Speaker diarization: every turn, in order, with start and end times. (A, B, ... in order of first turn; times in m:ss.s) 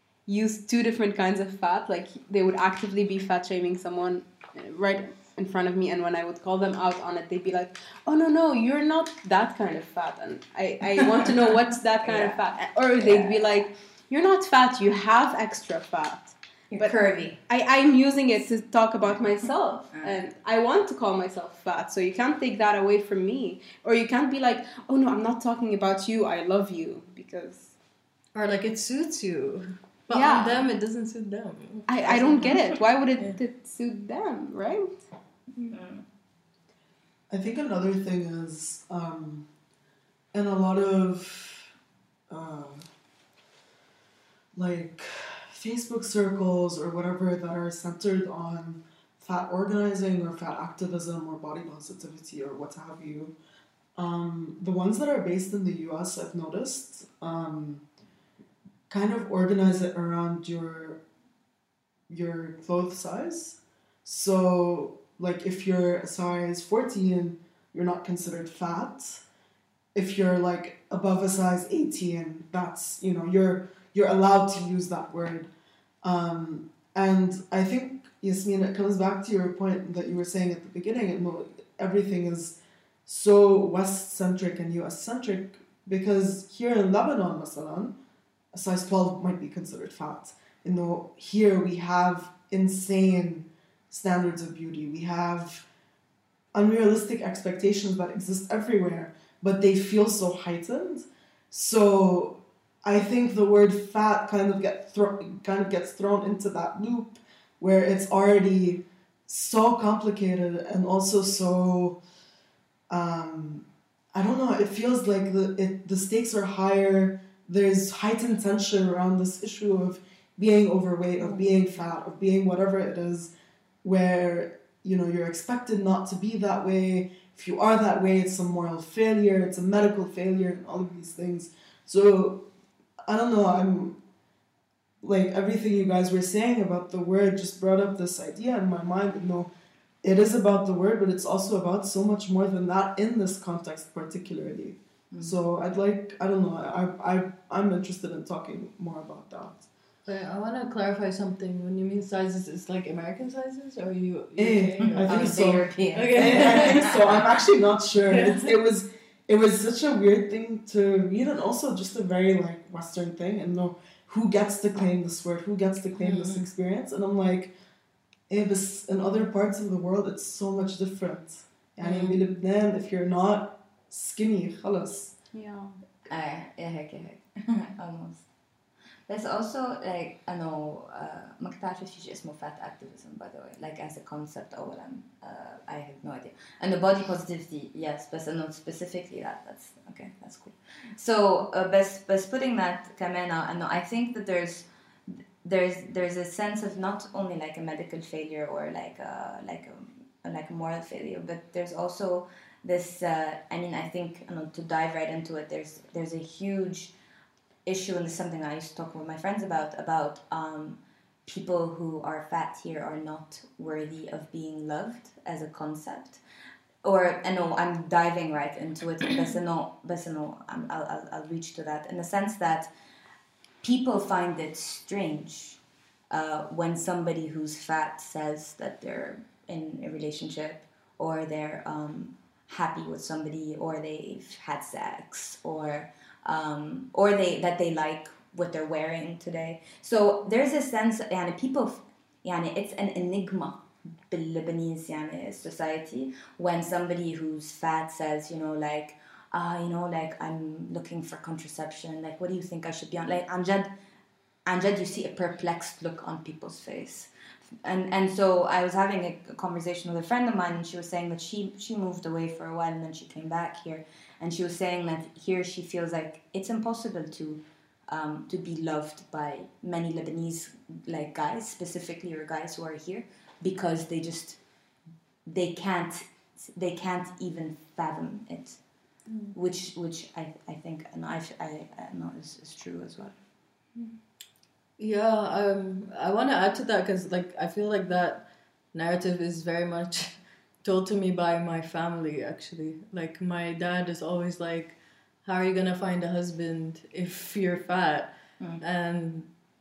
0:00.3-0:27.7 A
0:12.0-0:12.4 B
0:13.0-0:13.6 B
0:16.7-0:17.4 B
0:28.4-0:33.4 C
0:30.1-0:30.7 A
0:31.9-0:35.0 A
0:35.7-0:36.0 B
0:37.3-0:39.5 D
0:40.3-0:41.7 D
0:42.3-0:42.8 D
0:44.6-0:53.4 D
0:54.0-0:57.8 D
0:58.9-1:01.0 D
1:02.1-1:09.2 D
1:10.0-1:15.5 D
1:16.0-1:28.0 D
1:28.5-1:35.7 D
1:36.6-1:52.0 D
1:52.9-2:03.3 D
2:03.8-2:12.5 D
2:13.1-2:14.0 D
2:15.0-2:19.5 D
2:20.0-2:29.7 D
2:25.1-2:25.4 B
2:30.0-2:37.2 C
2:34.4-2:47.5 D
2:35.0-2:37.0 B
2:38.1-2:38.5 C
2:46.0-2:46.5 C
2:48.3-2:55.2 D
2:51.8-2:52.2 C
2:55.3-2:55.8 A
2:56.1-2:58.3 B
2:59.1-3:26.9 B
3:27.7-3:36.2 B
3:36.8-3:42.7 B
3:43.6-3:45.6 B
3:46.1-4:13.7 B
4:14.5-4:17.1 B
4:17.6-4:34.4 B
4:35.3-4:38.6 B
4:39.3-4:43.2 B
4:44.8-4:59.3 C